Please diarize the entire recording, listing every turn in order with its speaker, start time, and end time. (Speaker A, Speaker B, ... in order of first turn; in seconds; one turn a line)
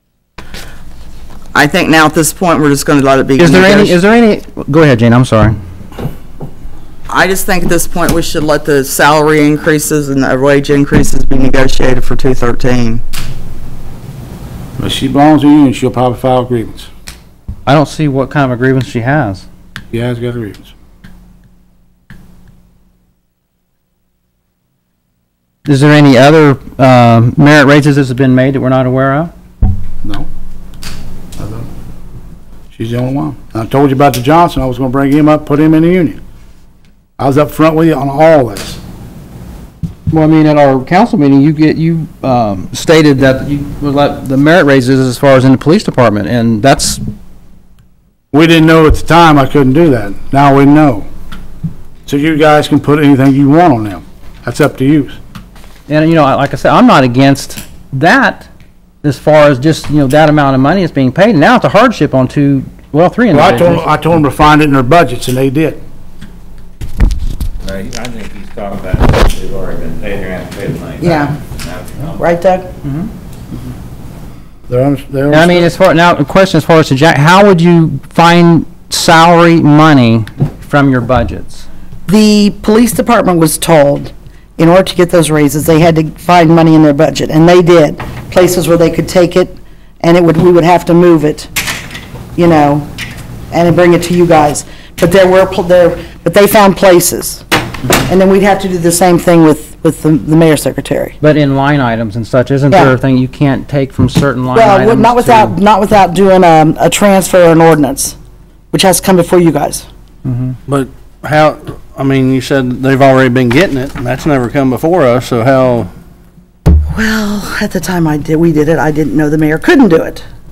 Speaker A: 1.5-4.0
Speaker B: 3.4-5.6
Speaker A: 7.1-13.0
Speaker C: 14.8-16.9
Speaker B: 17.7-19.4
Speaker C: 19.9-20.7
Speaker B: 25.7-29.3
Speaker C: 30.0-30.3
Speaker C: 31.4-31.7
Speaker C: 32.7-36.2
Speaker C: 37.2-38.8
Speaker B: 40.1-47.0
Speaker C: 48.3-51.1
Speaker C: 52.1-55.2
Speaker B: 55.9-58.5
Speaker B: 59.0-63.9
Speaker C: 63.3-65.8
Speaker D: 67.6-72.2
Speaker E: 71.0-71.4
Speaker E: 72.2-72.7
Speaker B: 72.8-73.1
Speaker C: 74.7-75.7
Speaker B: 75.3-81.7
Speaker E: 82.1-91.5
Speaker E: 92.4-92.9
Speaker E: 93.5-97.4
Speaker E: 98.1-101.2
Speaker B: 101.2-105.6
Speaker E: 102.7-103.0
Speaker E: 104.5-108.2
Speaker E: 108.7-109.9
Speaker B: 110.2-110.6
Speaker F: 110.7-115.9
Speaker E: 116.9-120.2